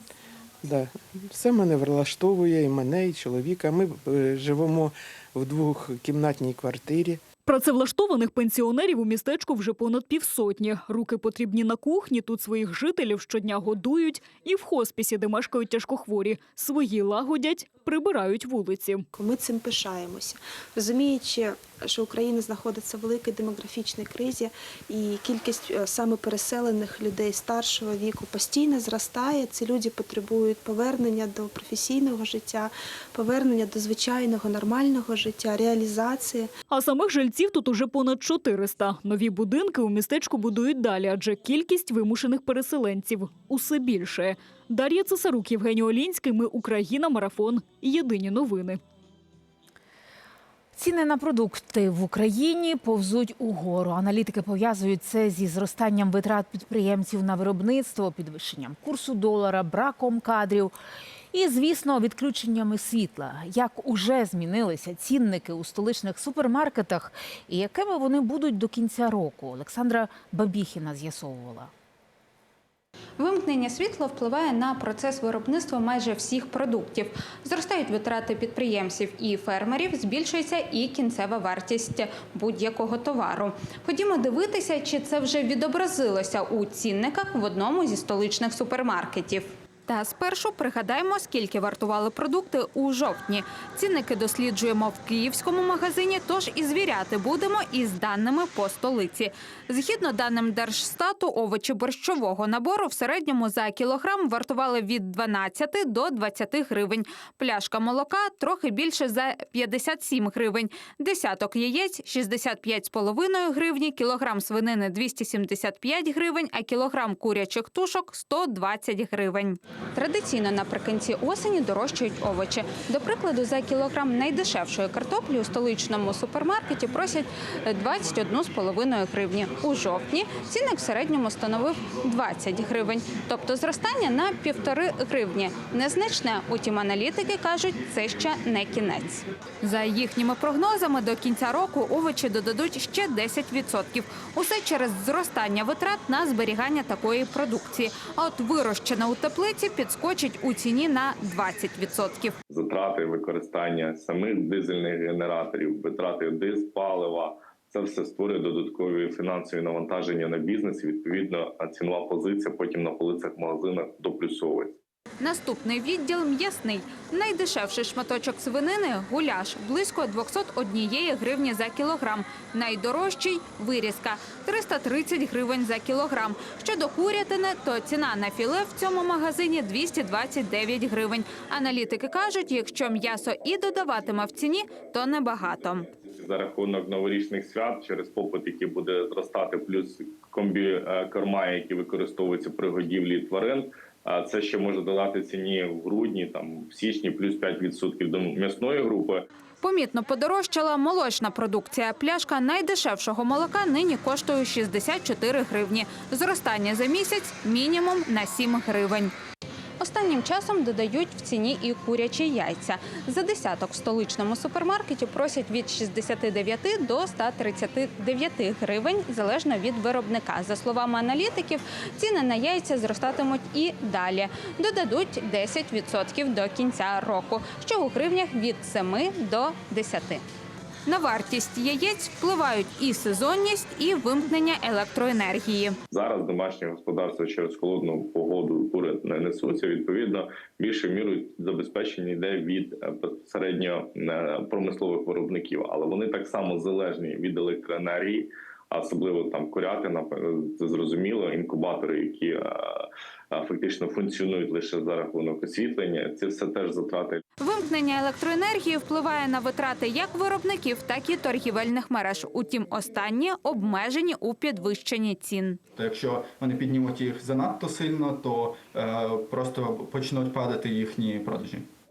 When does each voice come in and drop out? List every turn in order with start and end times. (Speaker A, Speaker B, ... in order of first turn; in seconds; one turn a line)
Speaker A: 0.6-7.2
Speaker B: 7.5-19.1
Speaker C: 19.1-36.5
Speaker B: 36.7-48.8
Speaker D: 50.7-60.7
Speaker D: 61.3-71.7
Speaker E: 73.2-152.3
Speaker F: 152.5-164.8
Speaker E: 165.2-185.9
Speaker F: 185.9-199.2
Speaker E: 199.6-209.1
Speaker E: 209.8-230.2
Speaker E: 230.8-235.8
Speaker F: 235.9-257.2
Speaker E: 257.4-265.6
Speaker G: 265.8-271.6